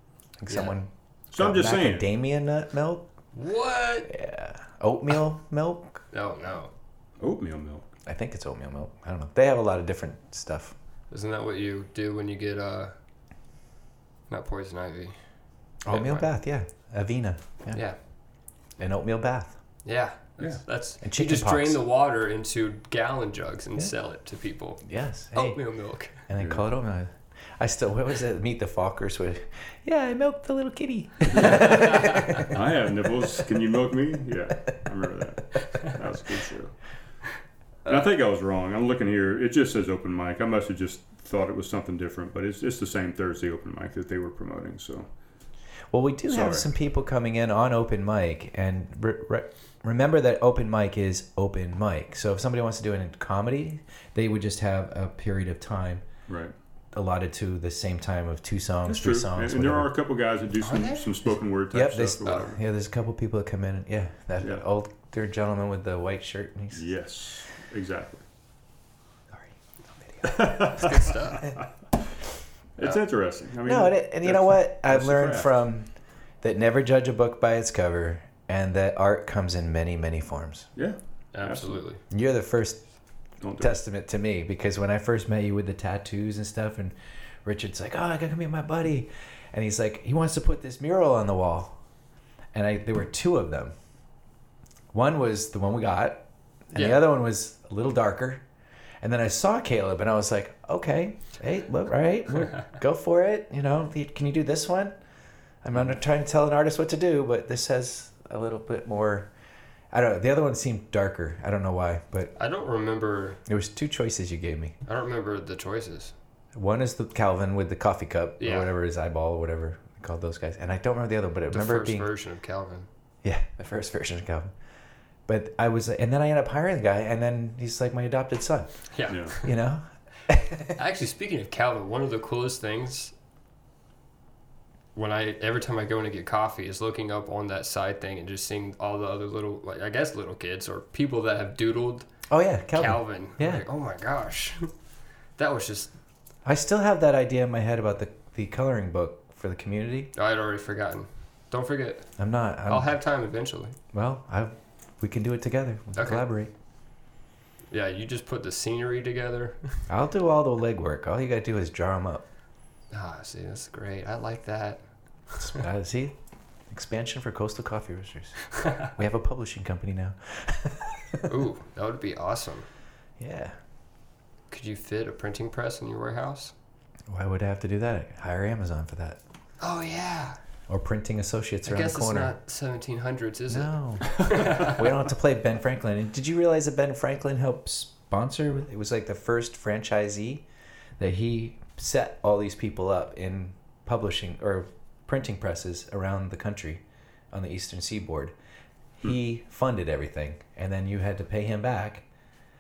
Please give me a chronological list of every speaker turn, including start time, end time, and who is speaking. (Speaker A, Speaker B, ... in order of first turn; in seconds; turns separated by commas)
Speaker A: 0.4-3.0, Speaker B: 0.5-0.8, Speaker C: 1.3-2.1, Speaker B: 3.3-4.1, Speaker A: 4.1-6.0, Speaker B: 6.1-6.7, Speaker C: 7.2-7.9, Speaker A: 8.1-10.7, Speaker B: 11.1-12.9, Speaker B: 14.3-15.2, Speaker A: 15.8-17.8, Speaker B: 15.9-16.3, Speaker A: 18.8-19.6, Speaker B: 19.8-26.2, Speaker A: 21.0-21.8, Speaker A: 24.8-25.6, Speaker A: 26.3-32.6, Speaker C: 26.4-26.6, Speaker B: 31.4-32.4, Speaker C: 32.5-36.7, Speaker C: 37.9-45.0, Speaker A: 45.9-56.0, Speaker C: 46.3-46.7, Speaker C: 56.3-56.5, Speaker A: 56.9-59.9, Speaker C: 58.8-62.6, Speaker B: 60.6-61.1, Speaker A: 61.7-66.8, Speaker C: 66.7-68.2, Speaker A: 69.3-70.6, Speaker C: 70.2-71.5, Speaker B: 70.6-71.5, Speaker C: 72.8-75.5, Speaker A: 73.6-75.9, Speaker A: 76.4-80.7, Speaker C: 80.8-81.8, Speaker B: 81.3-82.0, Speaker A: 82.1-82.8, Speaker C: 83.4-83.7, Speaker A: 83.6-91.8, Speaker A: 92.5-93.7, Speaker A: 94.9-98.4, Speaker B: 96.7-97.0, Speaker A: 99.0-104.9, Speaker A: 105.6-109.3, Speaker A: 109.9-112.3, Speaker B: 112.4-113.4, Speaker A: 113.5-114.8, Speaker B: 114.8-116.1, Speaker A: 116.5-122.1, Speaker B: 118.4-118.7, Speaker B: 121.5-122.9, Speaker A: 123.2-124.5, Speaker A: 125.3-128.7, Speaker B: 128.9-129.5, Speaker C: 129.1-129.3, Speaker A: 129.4-130.8, Speaker B: 130.8-133.1, Speaker B: 134.9-142.1, Speaker A: 142.3-143.6, Speaker B: 142.7-144.7, Speaker B: 145.4-145.9, Speaker A: 146.4-150.1, Speaker B: 150.1-152.1, Speaker A: 152.2-153.0, Speaker B: 152.7-153.8, Speaker A: 153.9-156.5, Speaker B: 155.9-156.2, Speaker B: 157.7-159.9, Speaker A: 159.9-162.2, Speaker B: 162.9-165.6, Speaker A: 165.4-166.1, Speaker A: 166.7-171.3, Speaker B: 168.6-168.9, Speaker B: 171.2-172.7, Speaker A: 173.2-173.6, Speaker B: 174.5-176.5, Speaker A: 177.1-179.2, Speaker B: 179.6-180.4, Speaker A: 180.7-182.3, Speaker B: 181.6-184.9, Speaker A: 183.5-190.4, Speaker A: 191.0-198.3, Speaker A: 199.0-202.0